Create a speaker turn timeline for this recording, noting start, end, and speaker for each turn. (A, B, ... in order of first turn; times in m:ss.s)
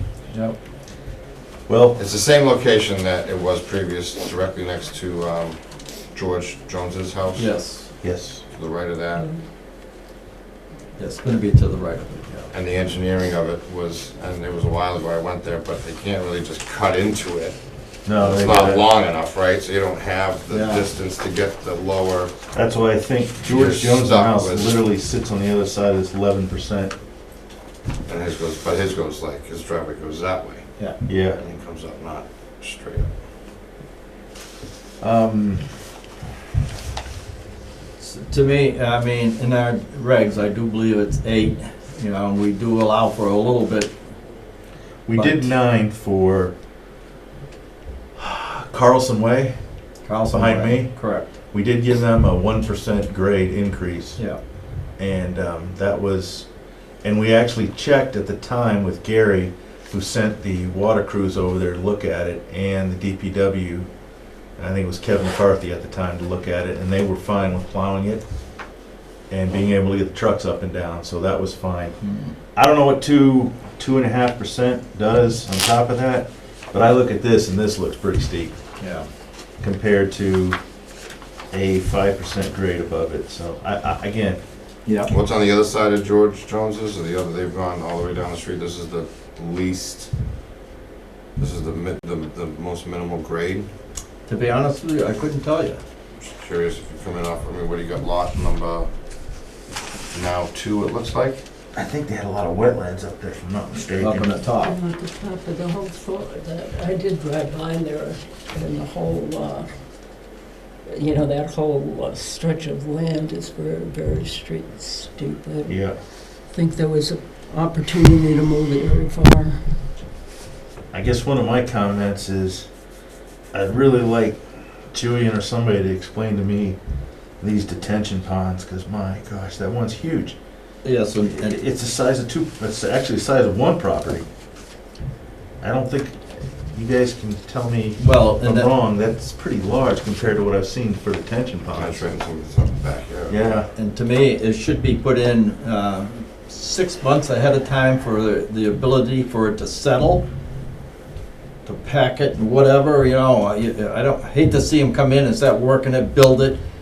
0:00.3-0:00.6 A
0:01.7-0:02.0 B
0:02.0-0:07.6 C
0:07.3-0:07.9 A
0:08.0-0:08.4 B
0:08.5-0:09.3 C
0:09.1-0:09.4 D
0:11.0-0:12.5 A
0:12.5-0:17.6 C
0:18.0-0:18.9 B
0:18.1-0:22.3 C
0:20.5-0:20.9 A
0:22.5-0:26.9 B
0:23.4-0:24.8 C
0:28.1-0:30.7 C
0:31.0-0:31.4 B
0:31.3-0:33.1 C
0:35.0-0:35.6 B
0:38.0-0:43.9 A
0:45.0-0:46.5 B
0:45.1-0:45.6 A
0:48.2-0:49.6 B
0:50.0-0:51.3 A
0:50.3-0:54.2 B
0:55.0-0:56.5 B
0:57.0-1:03.9 B
1:04.6-1:08.2 B
1:09.3-1:12.0 B
1:12.0-1:12.3 A
1:12.5-1:18.5 B
1:18.8-1:19.1 A
1:19.6-1:20.6 B
1:21.5-1:24.4 B
1:24.8-1:25.1 A
1:25.1-1:30.1 C
1:31.4-1:33.7 C
1:34.2-1:35.8 A
1:36.2-1:38.9 C
1:40.1-1:41.4 C
1:41.7-1:44.3 B
1:44.0-1:44.7 A
1:44.6-1:55.8 D
1:55.7-1:56.0 B
1:56.3-1:59.6 D
2:00.9-2:02.7 B
2:03.5-2:04.4 B
2:04.9-2:06.8 B
2:07.4-2:10.4 B
2:10.8-2:11.6 A
2:11.2-2:14.3 B
2:15.6-2:22.1 B
2:18.0-2:18.7 A
2:21.7-2:23.6 C
2:23.3-2:23.7 B
2:23.7-2:30.2 A
2:31.6-2:36.6 A